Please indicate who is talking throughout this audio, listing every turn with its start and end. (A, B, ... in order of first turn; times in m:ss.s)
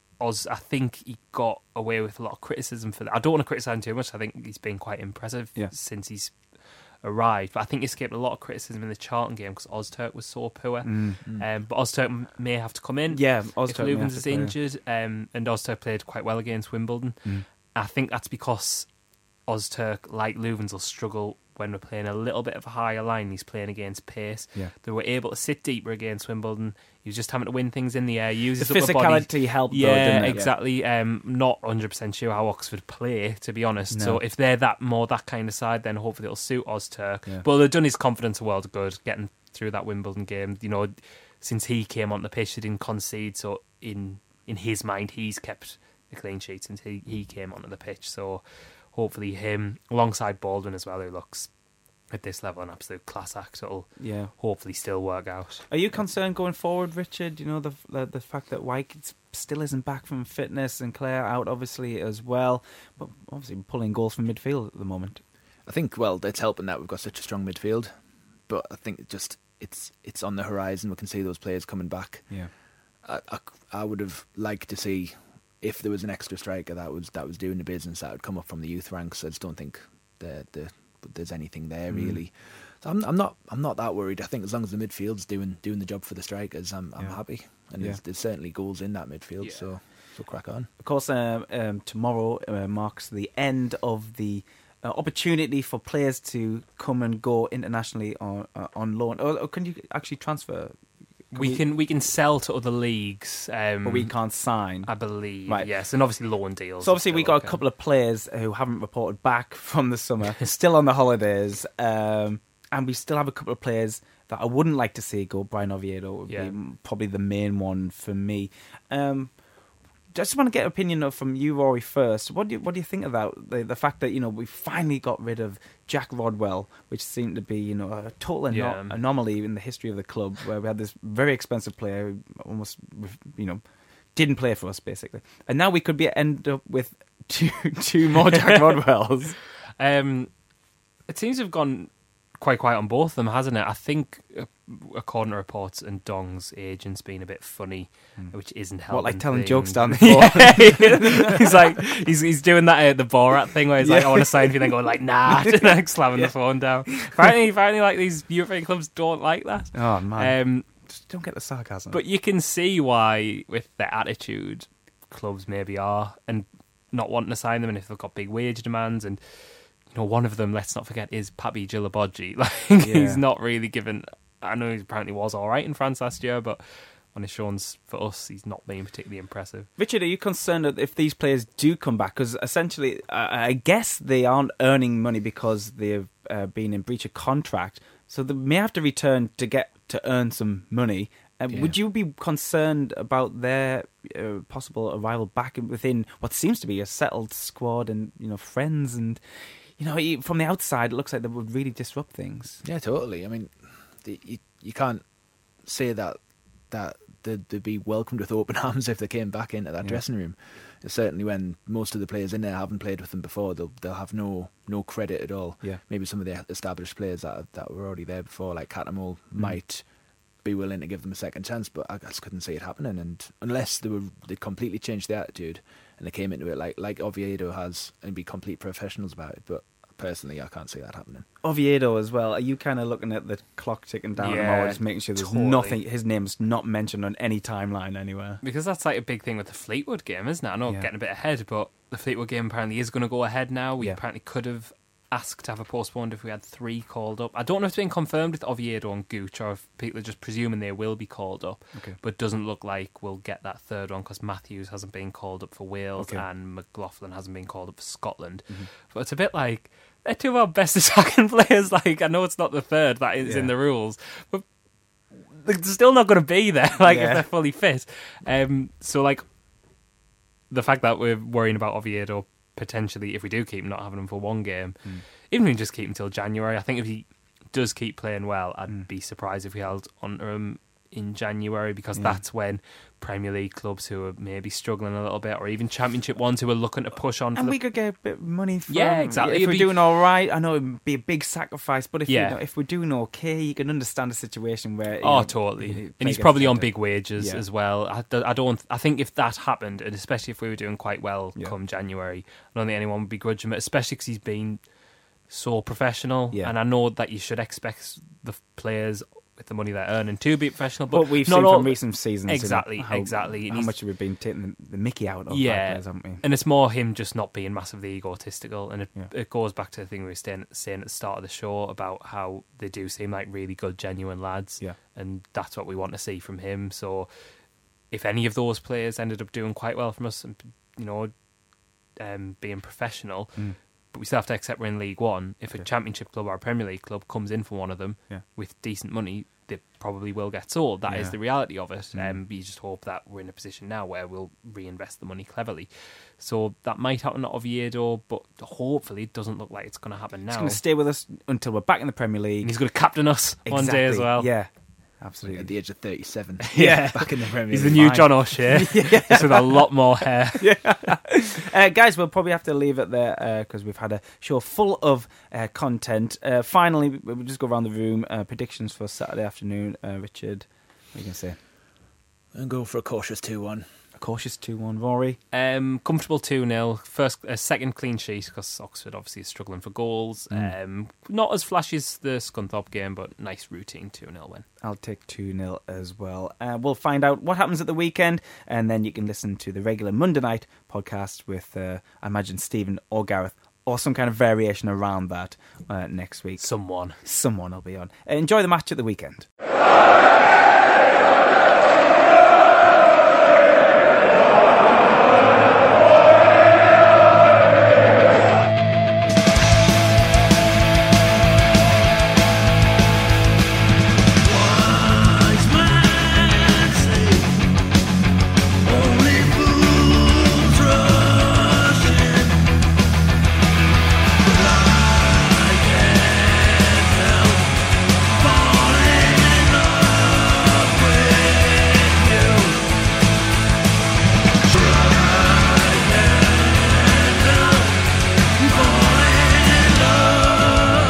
0:00.2-0:18.9 A
0:10.8-0:11.2 B
0:13.1-0:14.5 B
0:19.5-0:51.5 A
0:28.6-0:30.4 B
0:33.9-0:34.2 B
0:52.1-0:55.6 A
0:54.0-0:54.3 B
0:55.7-1:05.2 B
1:05.6-1:07.9 C
1:08.5-1:12.4 C
1:13.0-1:30.7 C
1:21.9-1:22.2 B
1:27.0-1:28.0 B
1:30.8-1:40.8 B
1:41.3-1:41.6 B
1:41.3-1:44.2 A
1:43.8-1:44.9 B
1:44.8-1:47.6 A
1:45.4-1:45.7 B
1:46.8-1:59.5 B
1:56.3-1:56.5 A
2:00.1-2:13.6 B
2:08.5-2:09.0 A
2:14.1-2:19.4 B
2:19.8-2:20.3 A
2:21.1-2:40.7 A
2:28.9-2:31.5 B
2:33.8-2:34.7 B
2:35.4-2:36.3 B
2:39.7-2:42.0 B
2:41.9-2:59.7 A
2:52.8-2:53.2 B
2:59.8-3:22.6 B
3:11.5-3:11.7 C
3:22.6-3:25.0 C
3:25.6-3:39.9 C
3:40.4-3:51.2 C
3:51.4-3:58.4 B
3:54.2-3:55.8 A
3:58.4-4:24.4 A
4:16.0-4:16.2 B
4:23.2-4:23.5 B
4:25.1-4:29.2 A
4:26.9-4:27.2 B
4:30.5-4:47.6 A
4:42.0-4:42.2 B
4:47.3-4:57.4 B
4:48.7-4:49.8 A
4:52.1-4:52.4 A
4:55.0-5:04.7 A
5:05.3-5:13.8 A
5:10.9-5:16.2 B
5:15.3-5:31.1 A
5:31.9-5:50.6 A
5:40.9-5:41.2 B
5:41.9-5:42.2 B
5:50.3-5:52.5 B
5:52.4-5:54.3 A
5:53.4-5:55.5 B
5:55.2-5:58.2 C
5:56.5-6:00.9 A
5:57.8-5:59.7 B
6:00.4-6:11.4 B
6:12.3-6:13.7 C
6:14.0-6:15.2 B
6:15.3-6:24.4 A
6:20.3-6:20.5 B
6:24.6-6:39.3 B
6:36.4-6:37.0 A